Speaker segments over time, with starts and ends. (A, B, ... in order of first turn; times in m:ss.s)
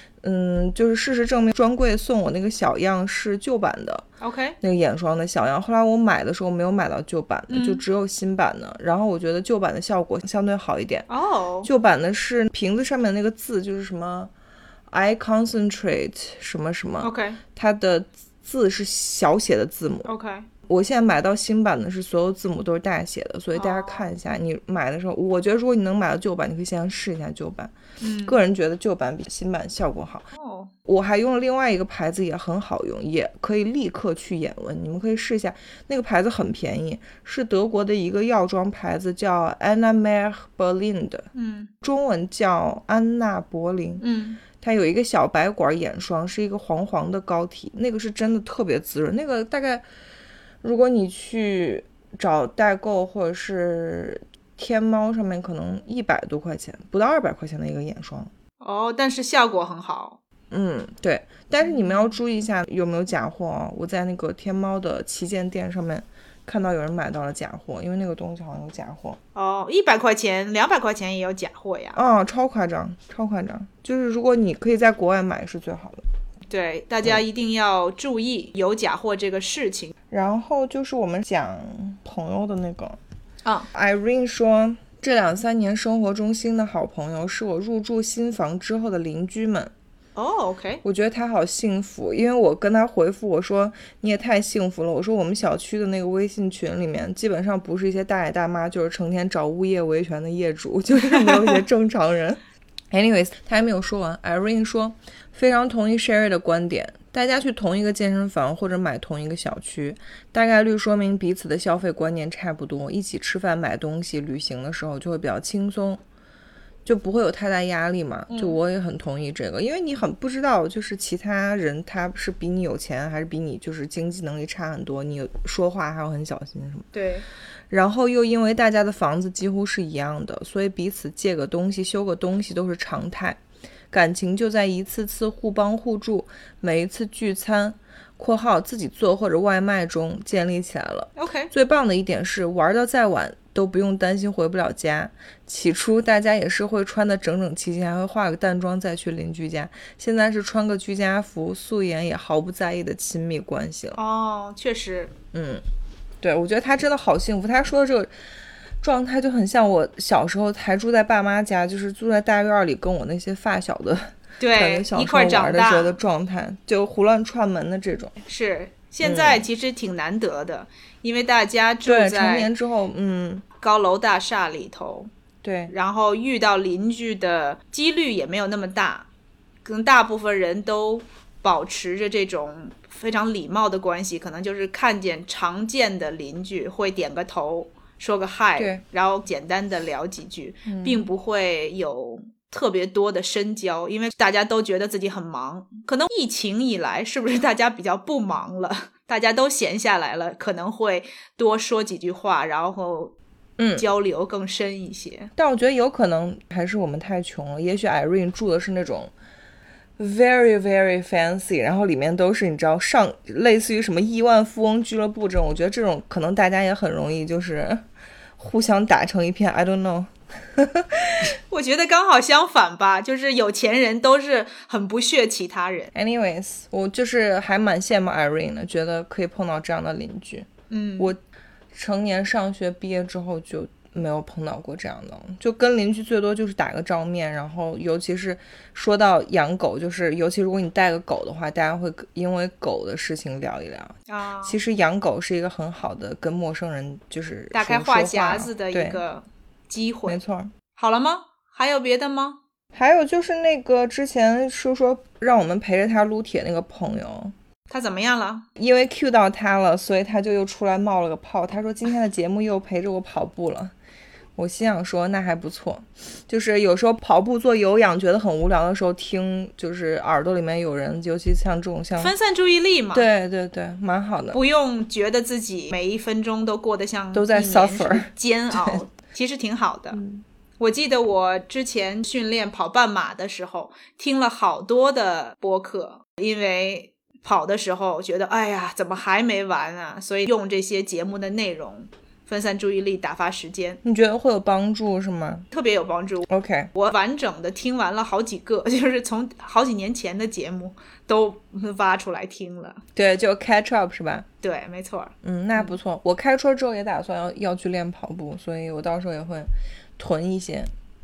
0:00.2-0:04.0 A
0:04.2-0:04.6 B
0:04.6-0:11.1 A
0:07.5-0:07.8 B
0:11.1-0:11.7 B
0:11.6-0:14.3 A
0:14.9-0:20.1 A
0:17.0-0:17.4 B
0:20.1-0:20.5 B
0:20.7-0:27.7 A
0:23.5-0:24.1 B
0:28.0-0:28.4 B
0:28.2-0:30.3 A
0:30.3-0:30.7 B
0:30.8-0:41.3 A
0:41.3-0:41.7 B
0:41.8-0:44.0 A
0:44.0-0:44.4 B
0:44.6-0:49.8 A
0:50.6-0:58.3 A
0:58.6-1:00.2 B
1:00.5-1:09.2 A
1:09.3-1:12.0 B
1:12.0-1:16.0 A
1:16.5-1:19.9 B
1:20.1-1:23.0 A
1:23.4-1:23.7 B
1:23.7-1:29.7 A
1:30.2-1:30.8 B
1:30.8-1:42.4 A
1:42.9-1:56.0 A
1:56.8-2:06.9 A
1:58.3-1:58.6 B
2:06.9-2:07.3 B
2:07.7-2:13.4 A
2:13.9-2:34.0 A
2:21.2-2:21.5 B
2:34.0-2:35.1 B
2:35.3-2:35.6 A
2:36.2-2:38.1 A
2:38.8-2:48.1 A
2:44.4-2:46.0 B
2:48.2-2:52.5 B
2:49.0-2:49.4 A
2:51.8-2:53.4 A
2:53.6-2:55.1 B
2:55.4-2:55.7 A
2:55.7-2:59.1 B
2:59.6-3:23.1 B
3:08.6-3:08.8 A
3:10.7-3:11.0 A
3:23.6-3:23.8 A
3:23.8-3:25.3 B
3:25.4-3:29.1 A
3:30.0-3:37.8 A
3:38.4-3:41.3 A
3:41.5-3:45.9 B
3:45.9-3:51.2 A
3:50.7-3:51.1 B
3:51.7-4:09.0 A
4:04.1-4:04.6 B
4:07.5-4:10.2 B
4:10.1-4:10.5 A
4:10.8-4:12.4 B
4:12.7-4:17.3 A
4:17.7-4:18.4 B
4:18.6-4:23.7 A
4:24.4-4:32.1 A
4:32.0-4:33.1 B
4:32.9-4:34.4 A
4:34.3-4:40.0 B
4:37.1-4:38.1 A
4:39.9-4:40.2 A
4:40.6-4:53.8 B
4:53.8-4:55.4 A
4:55.5-5:02.8 B
4:56.3-4:56.7 A
5:02.9-5:04.3 A
5:04.4-5:05.8 B
5:05.2-5:10.7 A